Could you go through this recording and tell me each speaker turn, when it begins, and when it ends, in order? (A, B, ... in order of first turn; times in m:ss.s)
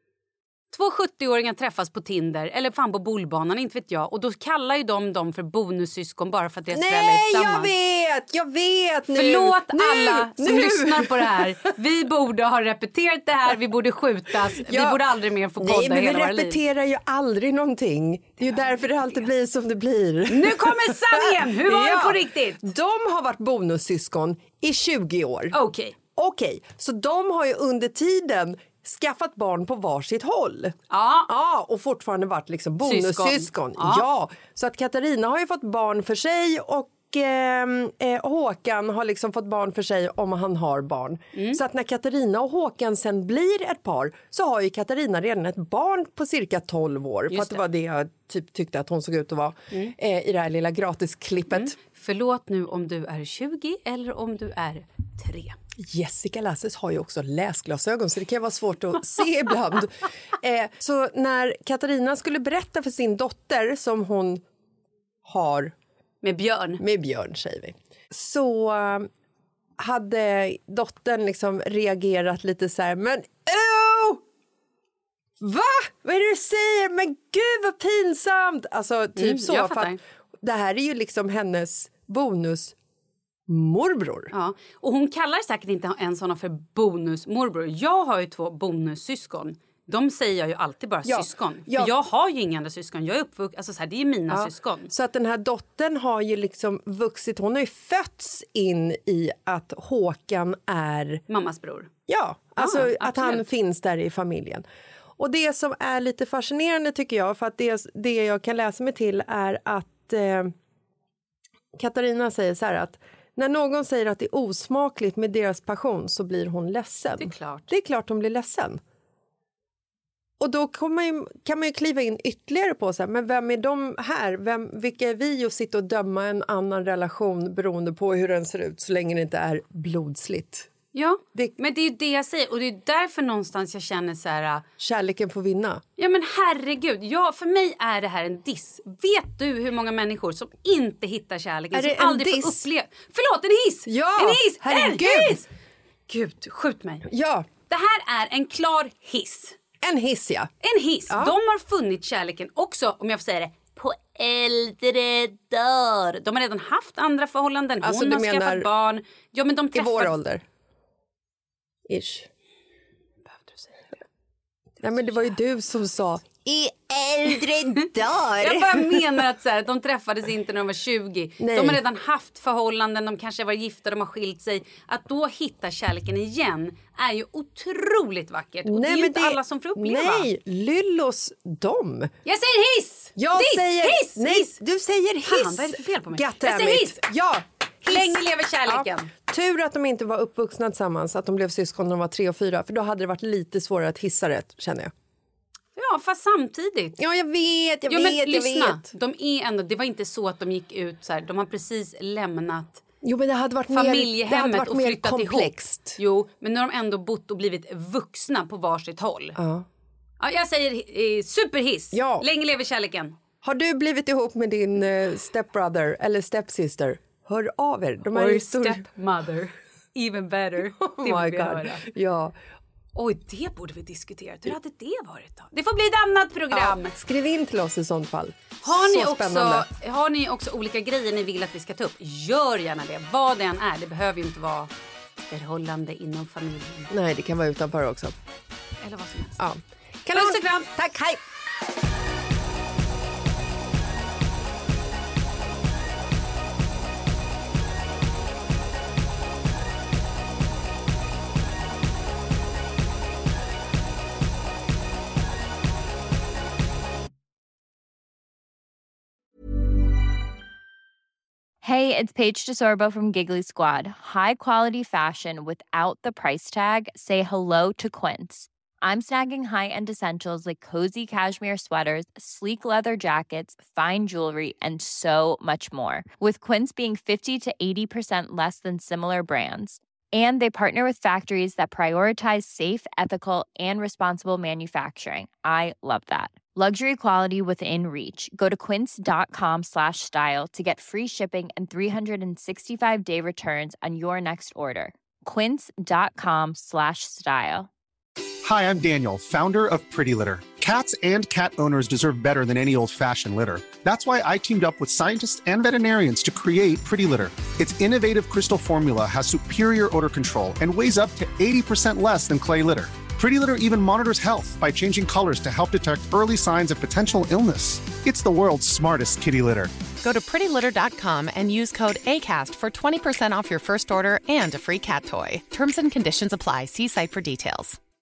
0:00.7-0:07.7 A
0:06.7-0:11.7 B
0:09.1-0:16.6 A
0:14.5-0:15.0 B
0:15.6-0:25.6 B
0:18.6-0:19.2 A
0:20.3-0:22.7 A
0:25.5-0:26.0 A
0:26.2-0:30.7 B
0:30.9-0:31.3 A
0:31.3-0:51.8 B
0:32.8-0:34.0 A
0:41.3-0:41.6 A
0:47.3-0:47.6 A
0:51.5-0:55.6 A
0:55.8-1:04.4 B
1:05.2-1:05.7 B
1:06.2-1:06.8 A
1:06.8-1:09.1 B
1:09.8-1:14.2 B
1:15.4-1:22.8 B
1:19.2-1:20.0 A
1:23.5-1:24.3 B
1:24.3-1:34.9 A
1:31.0-1:31.9 B
1:34.3-1:41.2 B
1:41.3-1:41.9 A
1:42.1-1:44.6 B
1:42.6-1:43.5 A
1:45.2-1:50.5 B
1:51.8-1:58.8 B
1:57.2-1:57.7 A
2:00.4-2:10.7 B
2:10.9-2:14.6 A
2:14.8-2:15.8 B
2:16.0-2:25.5 A
2:21.7-2:22.7 B
2:23.9-2:25.4 B
2:26.1-2:27.1 A
2:27.1-2:27.5 B
2:27.7-2:29.6 A
2:29.8-2:30.5 B
2:30.6-2:40.2 A
2:31.1-2:31.4 B
2:37.8-2:38.7 B
2:39.7-2:40.4 B
2:41.9-2:42.3 B
2:43.3-2:43.8 A
2:44.8-2:45.4 A
2:44.8-2:49.0 B
2:47.8-3:00.3 A
2:51.4-2:51.8 B
2:58.6-3:02.1 B
3:02.2-3:04.6 A
3:03.2-3:14.9 B
3:05.2-3:07.0 A
3:07.9-3:09.1 A
3:15.8-3:17.0 A
3:17.0-3:18.8 B
3:17.9-3:22.8 A
3:23.0-3:26.0 B
3:23.7-3:29.4 A
3:29.4-3:29.7 B
3:30.2-3:33.2 A
3:31.9-3:32.3 B
3:33.4-3:38.9 B
3:38.0-3:41.9 A
3:40.8-3:42.3 B
3:43.0-3:46.9 A
3:46.5-3:49.7 B
3:48.6-3:54.7 A
3:55.3-3:56.9 A
3:56.9-3:58.1 B
3:58.8-3:59.4 A
3:59.4-4:01.2 B
4:00.1-4:00.7 A
4:21.6-4:57.7 C
4:58.4-5:19.7 D
5:20.0-5:27.8 E